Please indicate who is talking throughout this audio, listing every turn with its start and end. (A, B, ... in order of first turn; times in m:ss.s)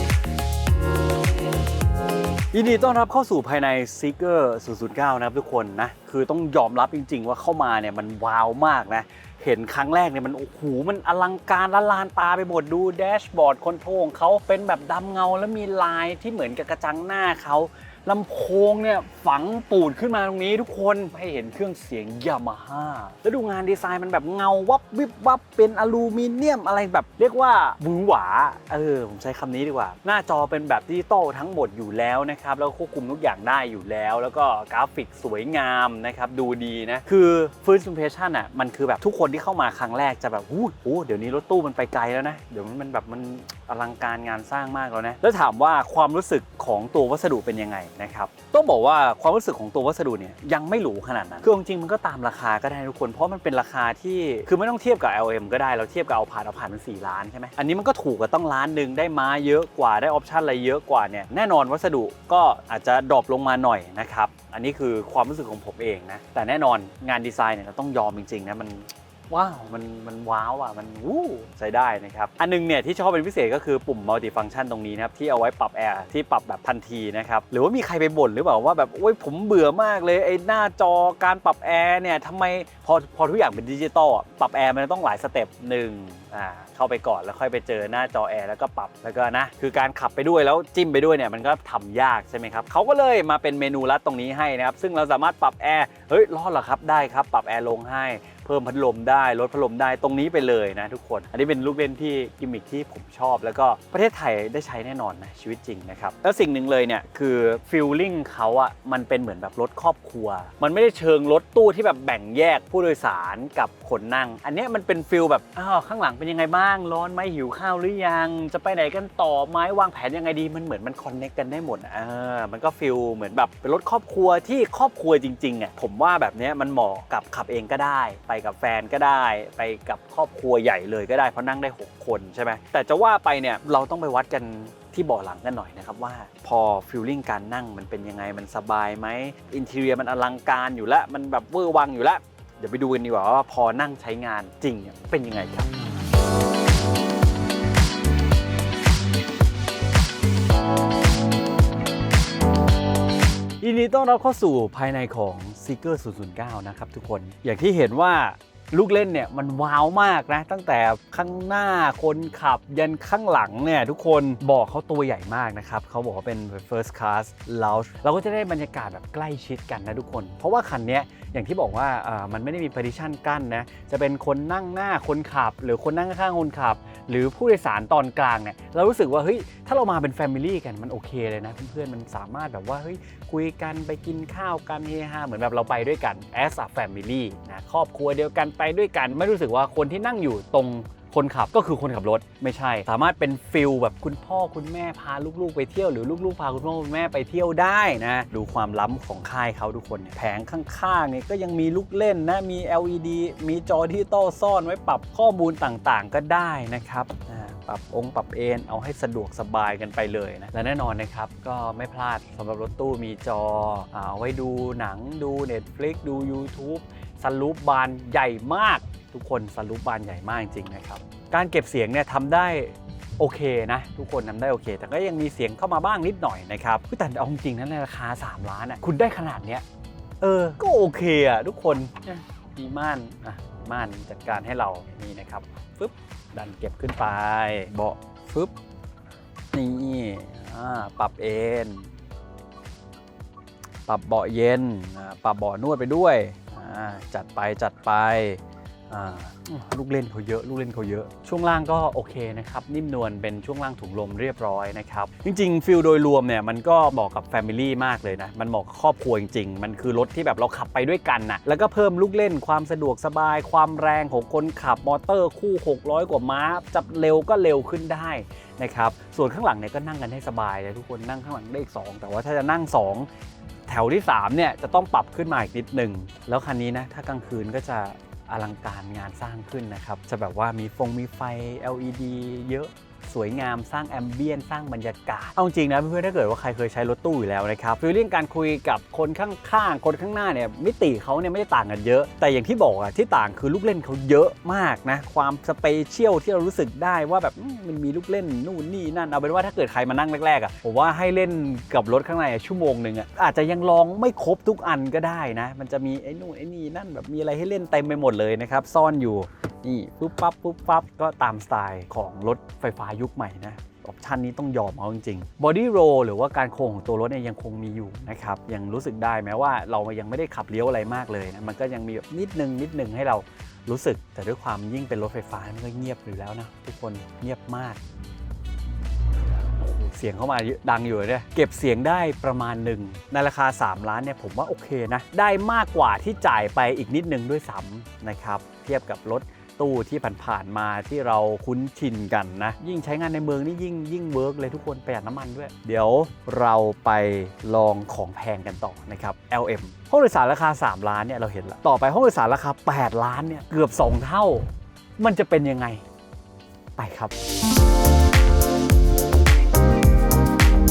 0:02.5-2:25.8 A
2:33.6-3:49.6 A
3:50.2-3:58.5 A
3:59.5-4:01.9 A
4:03.8-4:33.1 A
4:33.7-5:27.8 A
5:29.6-5:55.8 A
5:56.8-5:57.1 A